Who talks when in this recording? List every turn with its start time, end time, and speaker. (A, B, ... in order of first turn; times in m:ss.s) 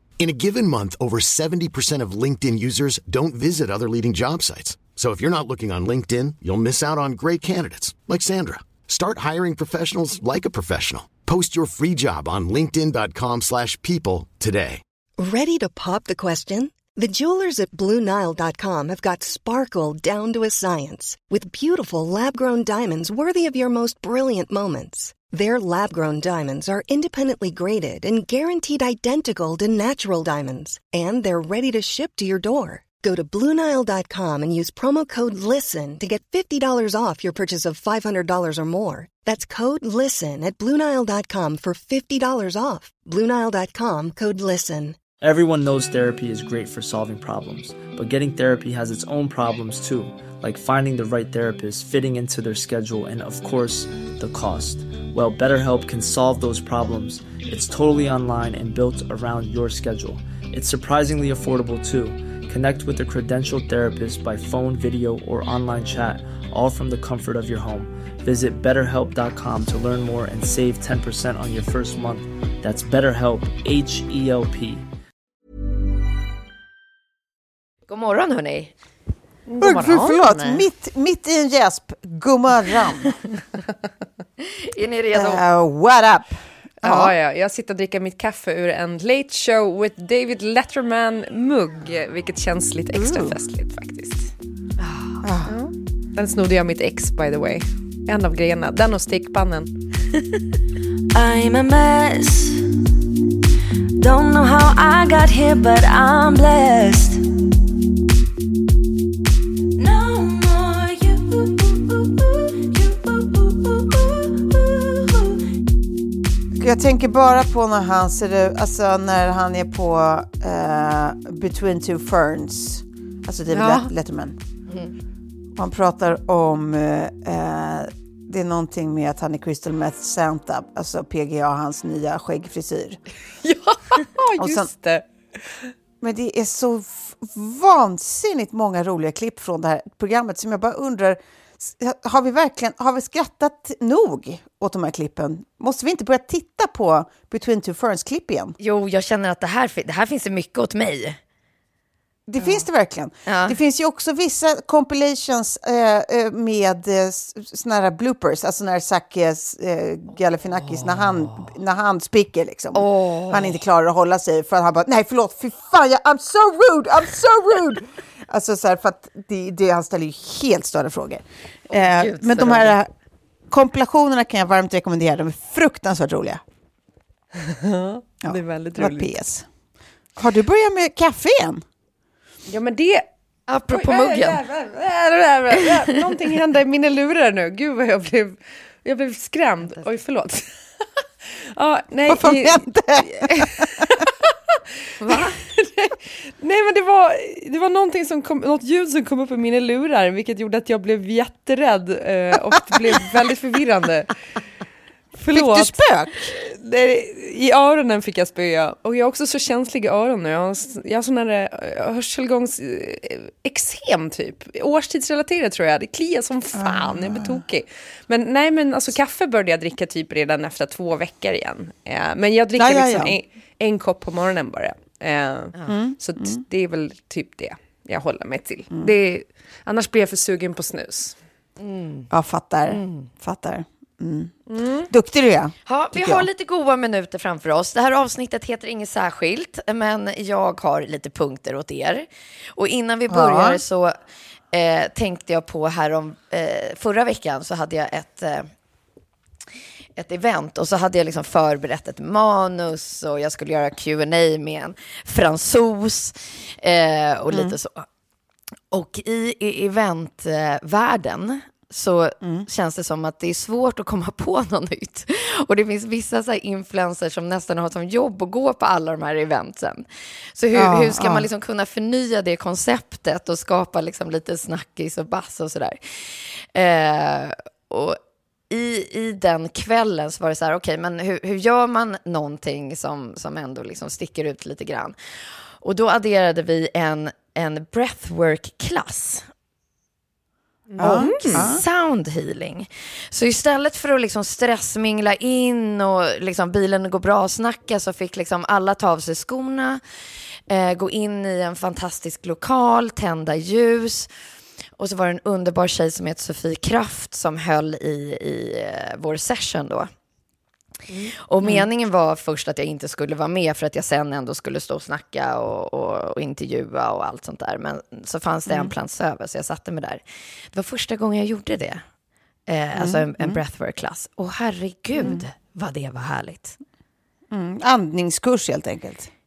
0:00.2-0:14.8 A
0:15.2-0:45.0 B
0:45.2-1:14.8 C
1:17.9-1:18.7 D
1:19.5-1:20.6 E
1:19.6-1:23.2 F
1:24.4-1:25.4 D
1:25.1-1:27.1 F
1:26.8-1:34.3 E
1:32.9-1:33.4 F
1:34.8-1:35.2 D
1:35.2-1:35.6 F
1:35.5-1:39.7 E
1:41.1-1:42.6 G
1:44.0-1:47.2 G
1:49.8-1:55.4 G
1:56.6-2:04.4 F
2:03.5-2:03.9 E
2:05.6-2:13.0 F
2:13.4-2:15.0 E
2:14.4-2:14.7 F
2:16.0-2:28.5 F
2:28.6-2:31.2 D
2:32.3-2:52.9 F
2:33.3-2:33.6 D
2:42.8-2:43.6 D
2:51.7-2:52.8 D
2:53.5-2:56.4 F
2:57.4-2:59.1 E
2:58.2-2:59.5 F
3:00.2-3:01.6 F
3:02.5-3:03.1 E
3:03.5-3:04.4 D
3:03.7-3:10.5 E
3:09.6-3:10.0 D
3:11.5-3:14.3 E
3:12.1-3:13.9 F
3:15.0-3:15.4 D
3:15.1-3:24.1 E
3:25.2-3:51.2 E
3:25.3-3:26.3 F
3:36.6-3:37.4 F
3:42.6-3:43.2 F
3:45.7-3:46.4 F
3:51.6-3:52.1 D
3:52.1-3:54.4 F
3:52.7-3:53.1 D
3:54.5-3:54.9 E
3:54.9-3:56.3 F
3:55.7-4:04.0 D
4:03.1-4:03.6 F
4:04.5-4:08.5 D
4:10.0-4:17.9 D
4:17.3-4:17.6 F
4:18.7-4:38.0 D
4:22.2-4:22.5 F
4:30.5-4:31.3 F
4:38.5-4:45.0 D
4:45.6-4:49.3 D
4:50.7-4:51.5 E
4:50.8-4:51.6 F
4:50.8-4:59.8 D
5:00.5-5:04.1 D
5:04.8-5:09.9 D
5:11.1-5:20.0 D
5:18.5-5:18.7 F
5:20.5-5:21.8 D
5:22.5-5:26.6 D
5:22.8-5:23.4 F
5:27.3-5:29.1 F